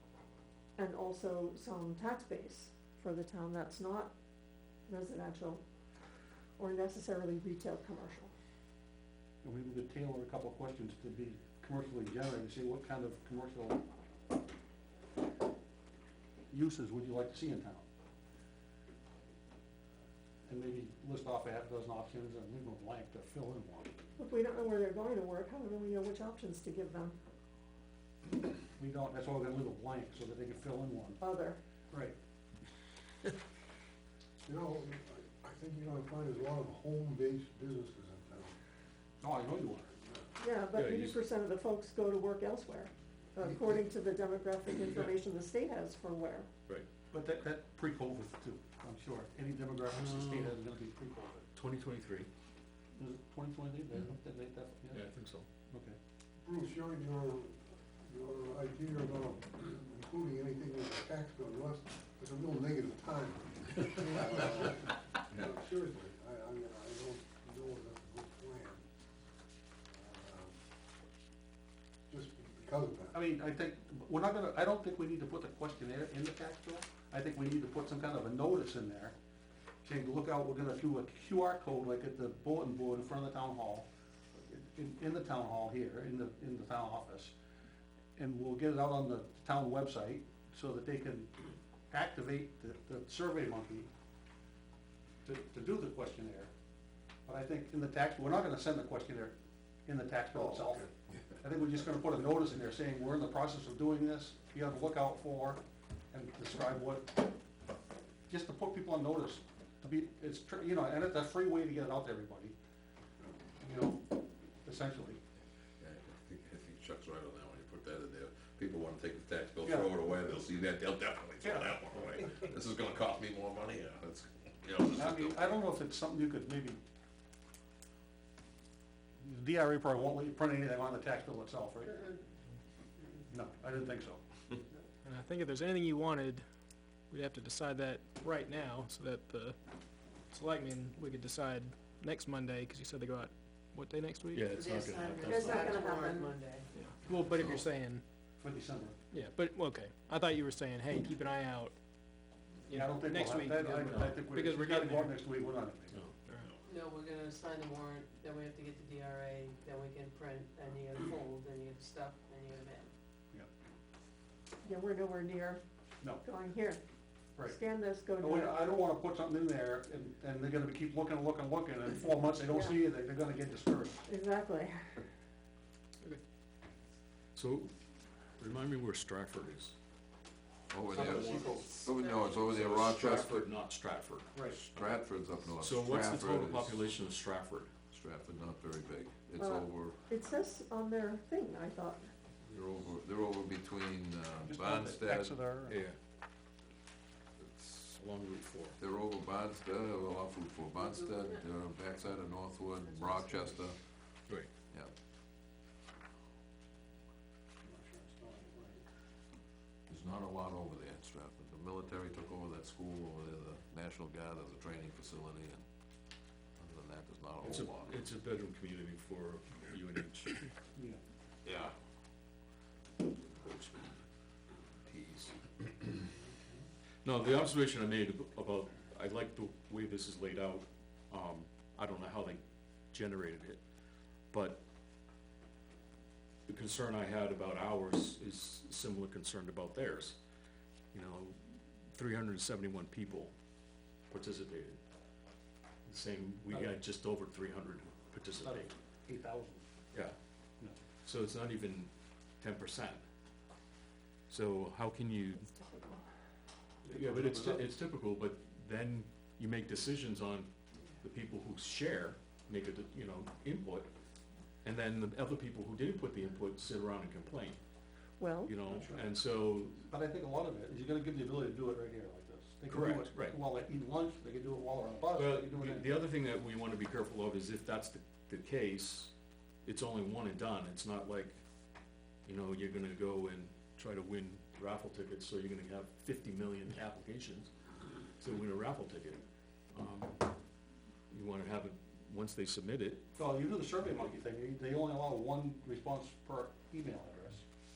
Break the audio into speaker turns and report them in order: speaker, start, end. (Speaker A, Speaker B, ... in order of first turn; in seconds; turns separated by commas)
Speaker A: 0.8-4.1, Speaker A: 4.9-5.6, Speaker A: 6.6-8.3, Speaker B: 9.4-13.8, Speaker B: 16.5-17.9, Speaker B: 20.5-23.9, Speaker A: 24.2-27.2, Speaker B: 28.8-31.2, Speaker A: 31.2-31.6, Speaker C: 34.4-38.5, Speaker B: 39.2-40.0, Speaker A: 40.4-46.5, Speaker D: 40.7-41.2, Speaker B: 47.1-51.5, Speaker D: 49.9-50.5, Speaker D: 51.5-52.3, Speaker B: 52.9-55.0, Speaker D: 54.9-55.5, Speaker B: 55.7-56.0, Speaker C: 56.4-68.8, Speaker C: 69.9-70.5, Speaker C: 72.1-73.2, Speaker B: 73.1-79.1, Speaker B: 79.8-83.9, Speaker B: 84.5-87.3, Speaker B: 88.2-93.9, Speaker B: 95.2-96.5, Speaker B: 97.3-100.9, Speaker C: 100.3-100.8, Speaker B: 101.4-107.3, Speaker B: 108.3-112.5, Speaker B: 113.6-114.1, Speaker B: 114.6-115.2, Speaker E: 115.8-125.6, Speaker B: 119.6-119.9, Speaker B: 121.4-121.8, Speaker B: 124.9-126.8, Speaker B: 129.2-132.0, Speaker B: 133.3-134.2, Speaker F: 135.0-136.5, Speaker F: 137.0-139.6, Speaker F: 140.1-144.6, Speaker D: 144.3-145.8, Speaker G: 144.5-146.7, Speaker A: 145.2-146.3, Speaker F: 146.7-148.0, Speaker B: 148.4-149.0, Speaker F: 149.1-151.8, Speaker F: 152.7-155.3, Speaker B: 152.7-156.0, Speaker D: 153.8-154.1, Speaker F: 156.2-156.5, Speaker G: 156.6-162.9, Speaker A: 164.6-165.6, Speaker A: 166.2-166.8, Speaker A: 167.4-168.7, Speaker B: 168.2-174.0, Speaker A: 172.5-172.8, Speaker A: 174.1-175.0, Speaker D: 177.3-177.7, Speaker D: 178.4-179.8, Speaker E: 180.7-183.5, Speaker D: 180.9-181.5, Speaker B: 180.9-181.7, Speaker G: 181.2-182.6, Speaker D: 182.4-185.0, Speaker B: 184.3-184.6, Speaker E: 184.5-186.8, Speaker D: 185.5-187.7, Speaker E: 187.9-190.0, Speaker A: 189.4-192.1, Speaker E: 192.4-195.3, Speaker B: 194.4-195.8, Speaker D: 195.7-196.0, Speaker E: 197.4-198.0, Speaker D: 197.9-198.8, Speaker E: 198.8-203.8, Speaker G: 200.7-201.5, Speaker G: 202.4-203.6, Speaker C: 207.6-208.8, Speaker E: 209.9-215.6, Speaker E: 216.6-218.0, Speaker D: 217.4-220.5, Speaker E: 221.4-221.7, Speaker D: 223.2-223.9, Speaker D: 224.8-225.3, Speaker D: 227.0-233.6, Speaker D: 234.3-234.6, Speaker D: 236.5-240.2, Speaker D: 240.9-243.3, Speaker D: 244.1-244.8, Speaker D: 245.8-248.7, Speaker B: 248.4-249.6, Speaker D: 251.0-253.0, Speaker D: 254.3-255.5, Speaker A: 255.5-256.0, Speaker B: 256.8-257.7, Speaker D: 256.8-263.9, Speaker D: 264.6-267.6, Speaker A: 268.2-268.5, Speaker D: 268.4-269.8, Speaker B: 268.7-269.0, Speaker B: 269.9-275.9, Speaker D: 272.7-273.4, Speaker D: 275.1-279.1, Speaker D: 279.6-281.4, Speaker D: 282.2-287.5, Speaker D: 288.2-290.3, Speaker D: 291.1-293.1, Speaker B: 293.1-297.4